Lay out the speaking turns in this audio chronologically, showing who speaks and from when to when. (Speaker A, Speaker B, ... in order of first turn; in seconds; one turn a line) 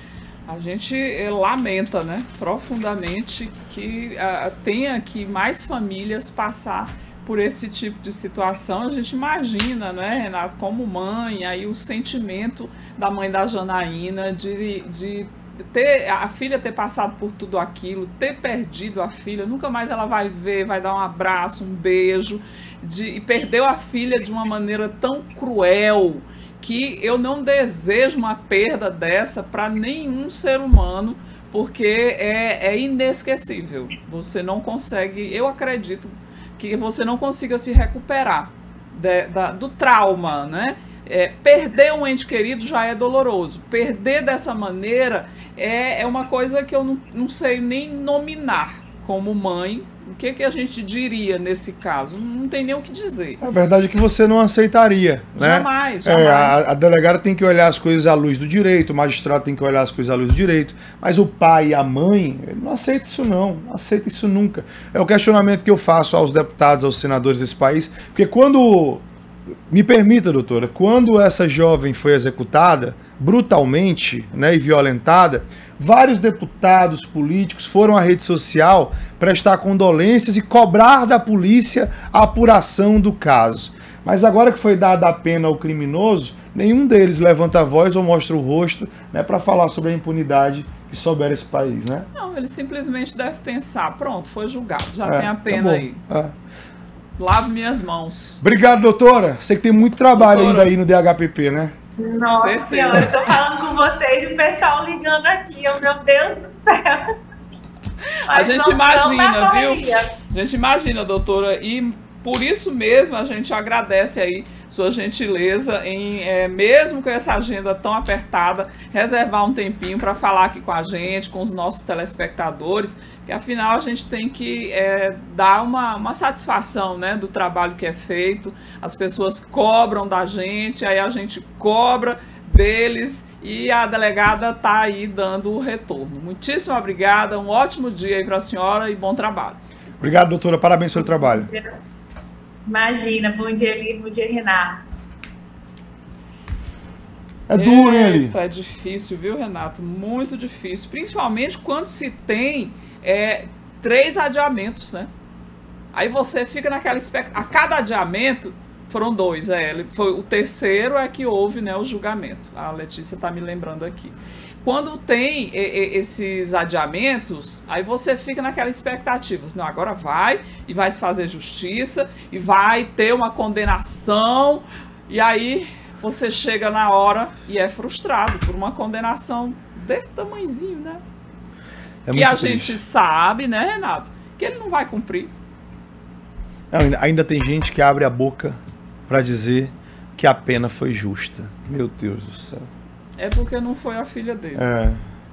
Speaker A: 0.5-53.4
Speaker B: 53.4-69.0
Speaker A: 55.4-56.9
Speaker B: 69.7-92.1
Speaker A: 92.1-96.0
Speaker B: 95.0-96.3
Speaker A: 97.2-98.4
Speaker B: 98.4-101.7
Speaker A: 100.1-100.7
Speaker C: 102.0-107.0
Speaker A: 102.2-103.2
Speaker C: 108.3-110.1
Speaker A: 108.3-139.6
Speaker B: 140.0-141.5
Speaker C: 141.0-141.7
Speaker C: 142.7-144.8
Speaker B: 147.5-148.4
Speaker A: 147.5-155.1
Speaker A: 155.9-181.0
Speaker B: 182.1-182.8
Speaker A: 182.1-185.3
Speaker B: 186.7-192.7
Speaker A: 193.2-194.9
Speaker B: 194.6-195.0